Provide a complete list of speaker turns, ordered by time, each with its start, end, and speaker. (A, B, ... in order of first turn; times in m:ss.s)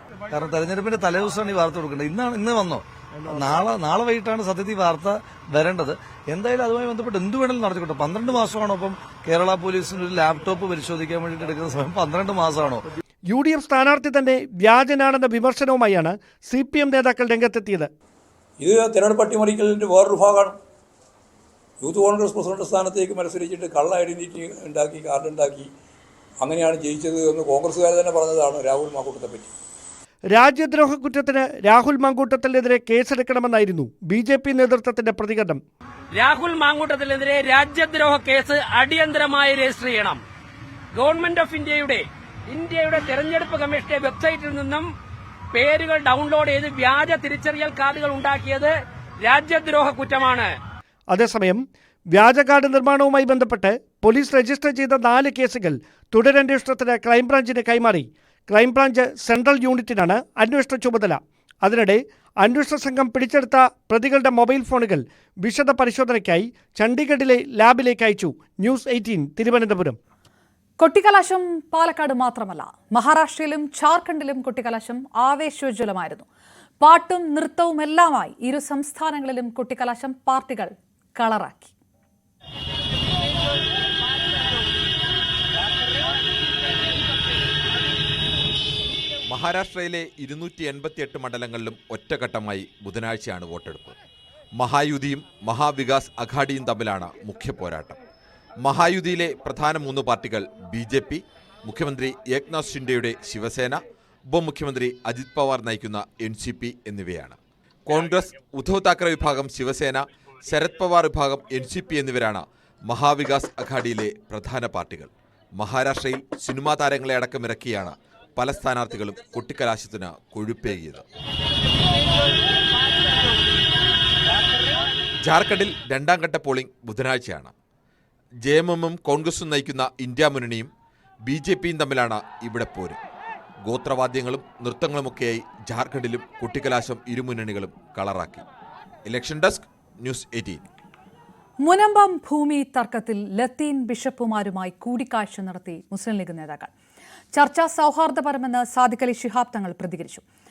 0:00.3-0:12.8 A
0:13.3-0:17.9 B
0:18.6-0:20.6 C
0:21.8-0:25.7 C
0:26.4-0:29.5 C
0:30.3-0:35.6 B
0:36.2-0:40.2 D
0:40.9-0:44.9 D
0:45.5-0:50.5 D
0:51.1-1:10.0 B
1:10.8-1:16.2 E
1:16.8-1:21.7 E
1:29.3-1:34.0 F
1:34.6-1:38.0 F
1:38.6-2:01.0 F
2:05.2-2:07.5 F
2:08.4-2:10.7 F
2:11.2-2:13.0 F
2:13.6-2:18.4 F
2:19.0-2:20.6 F
2:21.6-2:26.7 E
2:27.3-2:30.2 E